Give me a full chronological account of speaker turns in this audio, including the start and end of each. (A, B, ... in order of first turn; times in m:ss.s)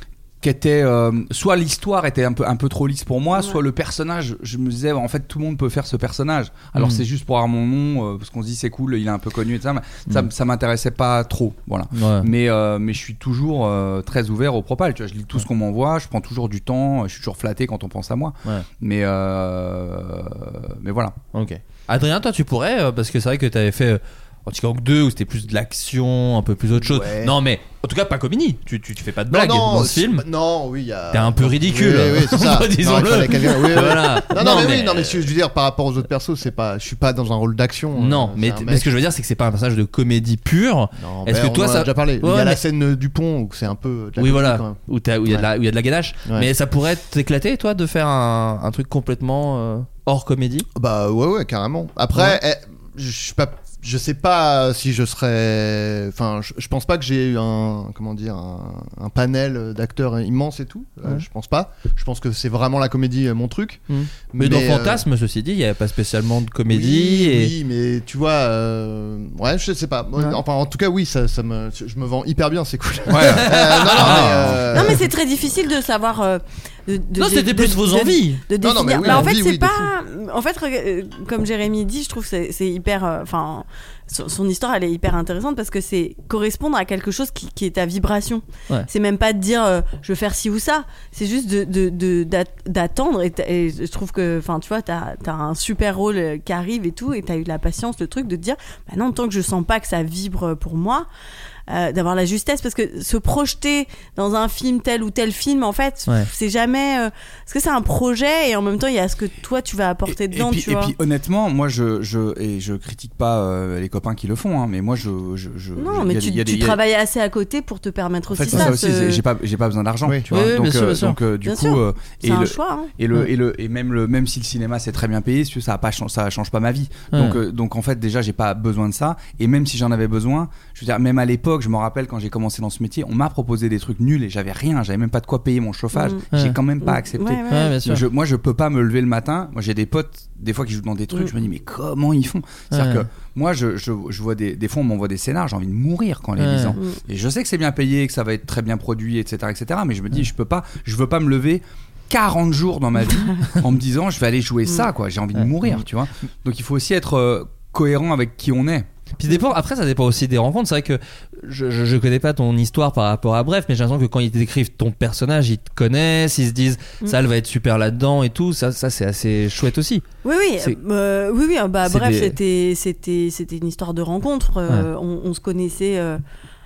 0:00.4-0:21.2 A
0:06.8-0:07.0 B
0:11.9-0:12.3 B
0:21.3-0:30.2 B
0:26.8-0:27.3 C
0:29.3-0:38.9 C
0:31.1-0:35.3 B
0:38.0-0:42.6 B
0:41.0-0:45.5 C
0:44.2-0:50.7 B
0:46.2-0:46.5 C
0:50.7-1:05.0 C
1:03.9-1:07.5 B
1:06.7-1:15.0 C
1:13.1-1:14.5 A
1:13.2-1:14.6 B
1:14.7-1:41.1 D
1:17.2-1:18.4 B
1:18.6-1:19.8 C
1:19.0-1:19.3 B
1:41.7-1:50.9 D
1:50.1-1:56.8 A
1:55.8-1:59.2 D
1:58.3-2:38.9 A
2:00.3-2:01.2 B
2:01.4-2:02.9 D
2:07.1-2:07.4 B
2:15.9-2:16.2 D
2:16.3-2:16.6 B
2:16.8-2:17.7 D
2:17.5-2:18.0 B
2:22.7-2:23.0 B
2:26.4-2:26.8 B
2:33.1-2:33.4 D
2:35.4-2:35.8 B
2:39.2-2:50.0 B
2:50.2-2:56.2 D
2:51.8-2:52.4 B